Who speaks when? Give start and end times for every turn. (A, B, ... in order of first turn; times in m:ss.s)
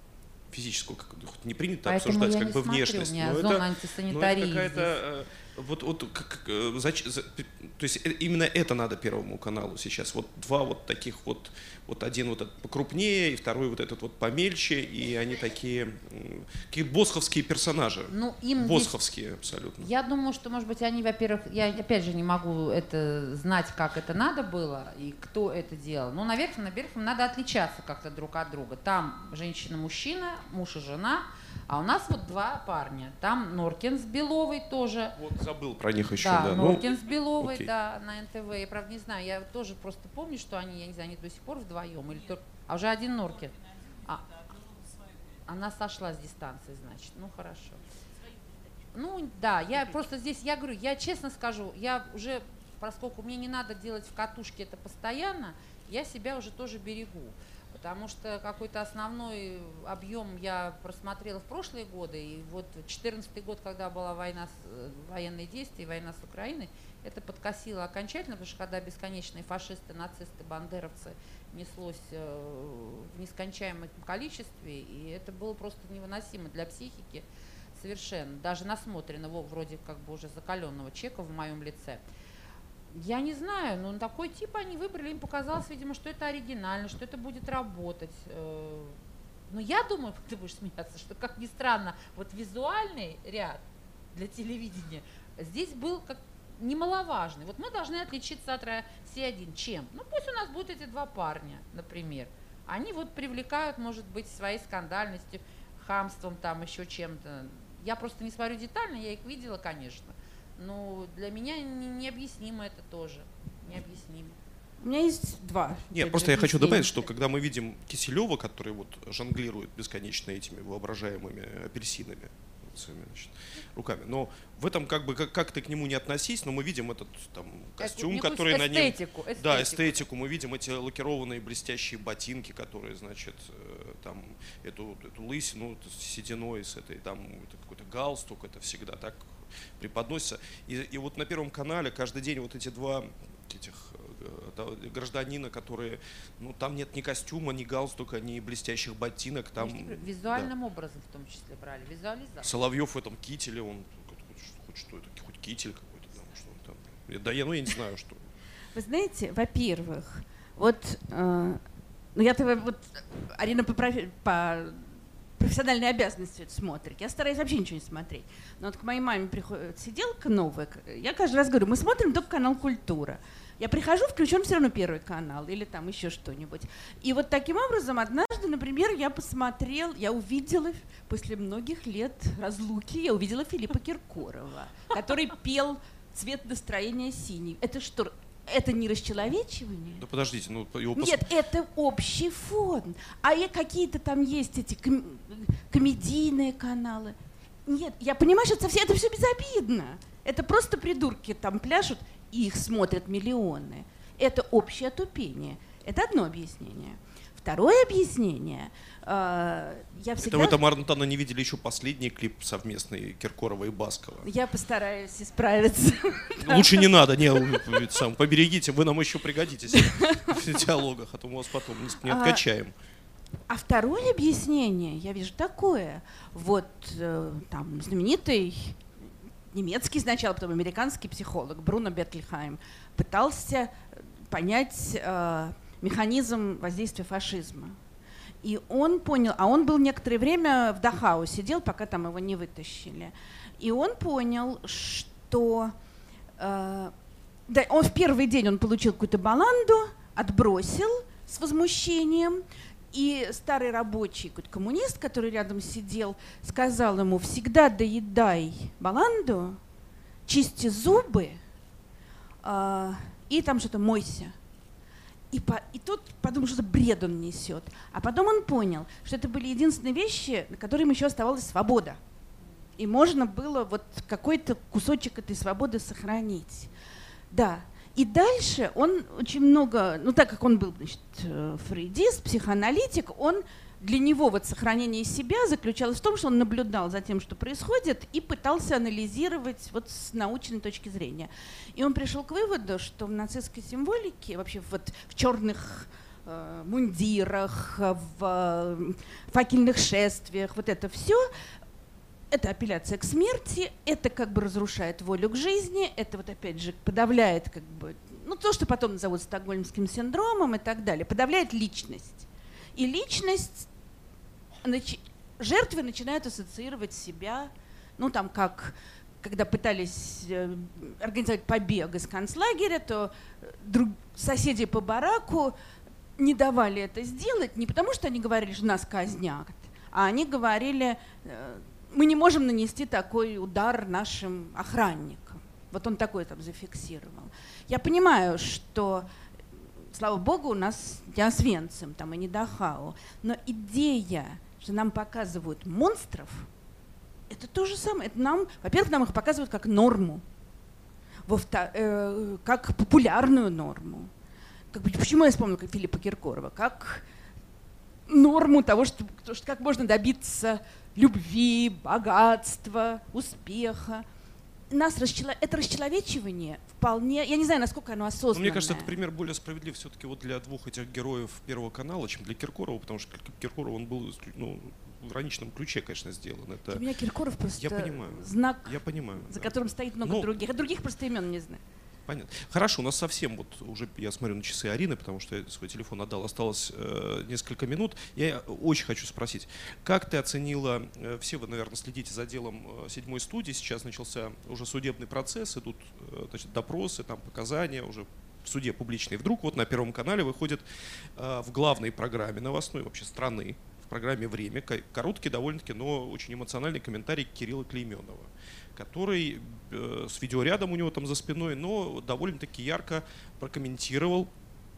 0:00.5-0:19.9 A
0:01.8-0:04.9 B
0:18.1-0:19.0 B
0:19.8-0:35.2 B
0:35.2-0:36.9 A
0:36.2-0:44.7 B
0:37.4-0:37.7 A
0:45.4-0:47.8 B
0:48.9-1:22.0 B
1:22.9-1:54.4 B
1:54.8-1:57.0 C
1:55.9-2:30.5 A
2:07.8-2:10.0 B
2:29.6-2:32.6 B
2:32.4-2:38.3 A
2:38.7-2:41.6 C
2:42.1-3:10.0 C
3:10.0-3:11.3 A
3:11.0-3:30.6 C
3:30.2-3:34.3 A
3:34.2-3:37.8 C
3:36.4-3:42.7 A
3:39.7-3:40.4 C
3:42.0-3:42.4 C
3:43.5-3:48.8 C
3:49.5-3:57.8 C
3:58.4-4:05.7 C
4:06.4-4:06.9 C
4:07.5-4:19.6 C
4:20.3-4:21.4 C
4:22.4-4:24.4 C
4:25.3-4:32.0 C
4:32.8-4:36.7 C
4:37.3-5:01.4 C
5:02.3-5:13.7 C
5:14.6-5:25.5 C
5:26.2-5:46.5 C
5:47.3-5:50.2 C
5:51.2-5:54.1 C
5:54.7-5:57.0 C
5:58.1-6:04.0 C
6:04.7-6:09.0 C
6:08.3-6:16.8 A
6:16.7-6:21.6 C
6:17.6-6:20.3 A
6:22.1-6:40.6 A
6:41.2-6:54.3 A